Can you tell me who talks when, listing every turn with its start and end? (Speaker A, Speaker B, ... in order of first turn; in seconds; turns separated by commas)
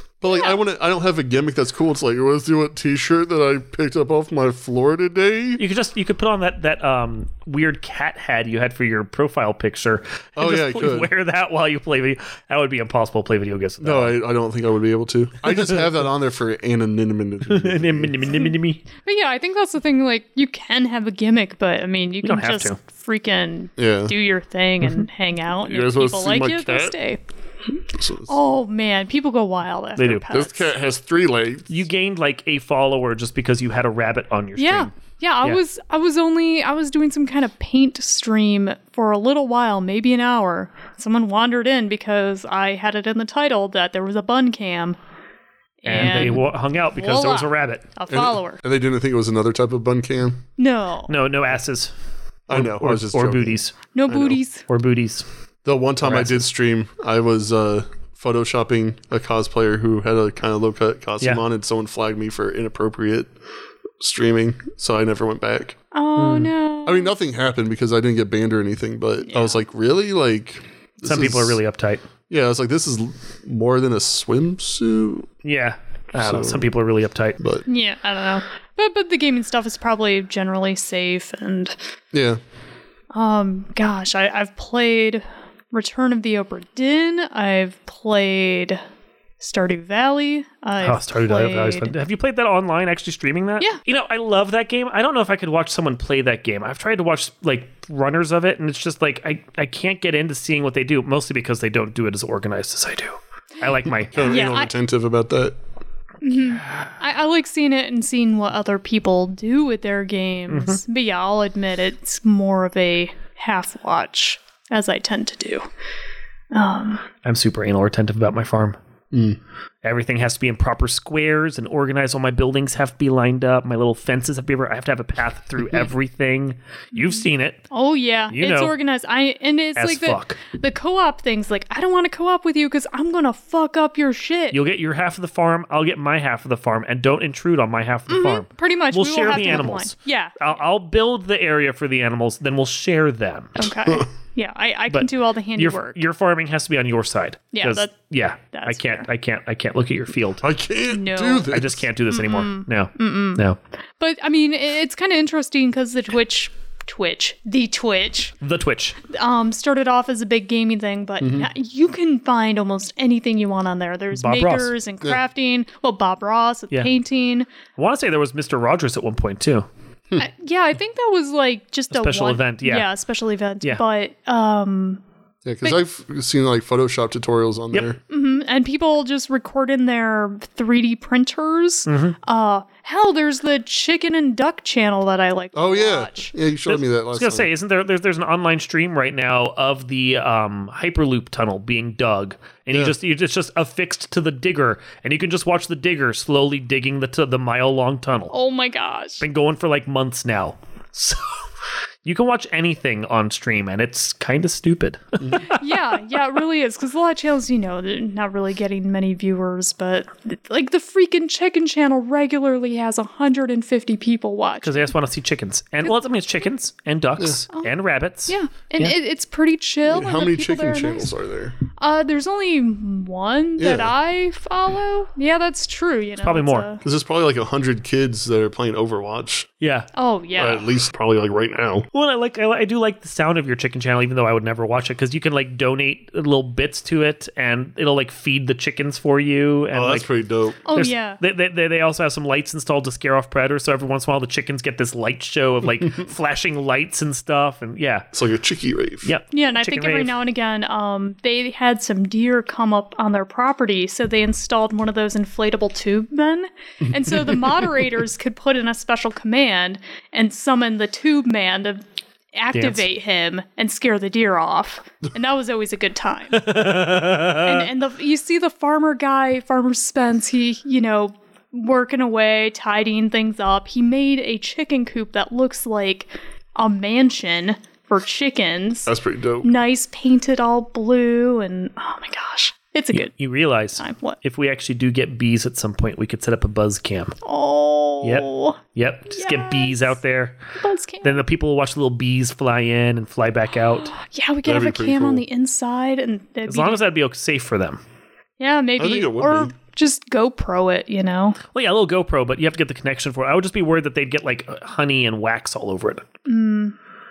Speaker A: 0.2-5.6, Speaker B: 0.2-0.6, Speaker C: 5.6-14.1, Speaker A: 10.3-11.1, Speaker A: 13.8-18.2, Speaker C: 17.5-18.8, Speaker B: 19.0-27.2, Speaker C: 22.2-22.8, Speaker A: 23.8-24.1, Speaker A: 25.6-26.9, Speaker A: 27.9-28.3, Speaker B: 28.3-30.7, Speaker C: 30.0-30.2, Speaker A: 30.3-31.8, Speaker C: 31.7-34.9, Speaker B: 34.6-45.0, Speaker C: 45.8-47.8, Speaker B: 45.8-48.6, Speaker A: 46.0-46.4, Speaker A: 48.1-50.4, Speaker B: 50.6-51.1, Speaker C: 51.1-51.9, Speaker A: 52.5-54.4, Speaker C: 52.5-53.8, Speaker B: 53.9-54.6, Speaker C: 54.7-55.2, Speaker A: 55.6-63.3, Speaker C: 56.0-56.4, Speaker A: 64.0-65.8, Speaker B: 65.9-67.1, Speaker C: 66.2-66.5, Speaker A: 66.8-71.6, Speaker B: 69.2-69.6, Speaker C: 71.0-72.0, Speaker A: 72.3-75.3, Speaker C: 75.4-77.4, Speaker A: 76.2-76.7, Speaker B: 77.7-81.7, Speaker A: 82.1-82.4, Speaker B: 83.1-88.8, Speaker B: 89.4-91.9, Speaker C: 90.8-104.6, Speaker A: 104.1-105.6, Speaker B: 104.2-104.7, Speaker B: 106.2-115.6, Speaker C: 110.5-110.8, Speaker B: 116.5-117.0, Speaker C: 117.2-118.8, Speaker A: 119.1-119.4, Speaker C: 119.8-127.6, Speaker B: 126.9-134.6, Speaker C: 128.3-128.7, Speaker C: 129.8-130.4, Speaker C: 134.5-143.7, Speaker B: 138.1-140.5, Speaker B: 143.6-146.0, Speaker C: 144.9-150.4, Speaker B: 147.5-147.9, Speaker B: 148.5-149.1, Speaker A: 150.4-151.8, Speaker B: 150.9-151.5, Speaker C: 151.5-153.6, Speaker B: 152.1-153.4, Speaker B: 154.0-158.3, Speaker C: 158.4-159.0, Speaker B: 159.1-167.5, Speaker A: 161.2-161.5, Speaker C: 164.1-164.7, Speaker C: 167.8-169.7, Speaker B: 170.2-175.0, Speaker C: 171.9-172.9, Speaker A: 175.4-178.0, Speaker B: 178.1-186.3, Speaker C: 181.9-182.2, Speaker A: 185.5-187.5, Speaker C: 186.7-198.3, Speaker A: 192.7-192.9, Speaker B: 198.3-199.2, Speaker C: 199.2-201.4, Speaker C: 202.0-205.6, Speaker B: 205.3-214.9, Speaker C: 214.6-218.9, Speaker B: 218.3-221.1, Speaker A: 219.8-221.6, Speaker B: 221.8-226.8, Speaker A: 223.6-223.9, Speaker C: 226.2-226.7, Speaker A: 226.8-229.5, Speaker C: 229.6-229.9, Speaker B: 229.9-230.7, Speaker A: 230.4-231.9, Speaker C: 231.9-240.1, Speaker A: 239.7-240.7, Speaker B: 240.6-241.2, Speaker C: 240.7-248.1, Speaker A: 248.1-249.1, Speaker C: 249.0-250.1, Speaker B: 249.3-261.8, Speaker B: 262.3-266.5, Speaker C: 262.5-262.8, Speaker C: 266.3-267.7, Speaker B: 267.3-278.9, Speaker A: 278.9-279.5, Speaker B: 279.4-283.1, Speaker C: 282.9-287.1, Speaker B: 283.8-284.2, Speaker B: 287.2-288.6, Speaker C: 288.0-290.4, Speaker B: 289.1-290.0, Speaker B: 290.6-291.2, Speaker C: 291.0-293.9, Speaker B: 293.9-296.8, Speaker A: 294.4-295.2, Speaker C: 296.5-297.8, Speaker B: 298.4-301.4, Speaker A: 298.8-299.5, Speaker C: 301.5-306.0, Speaker B: 306.2-306.8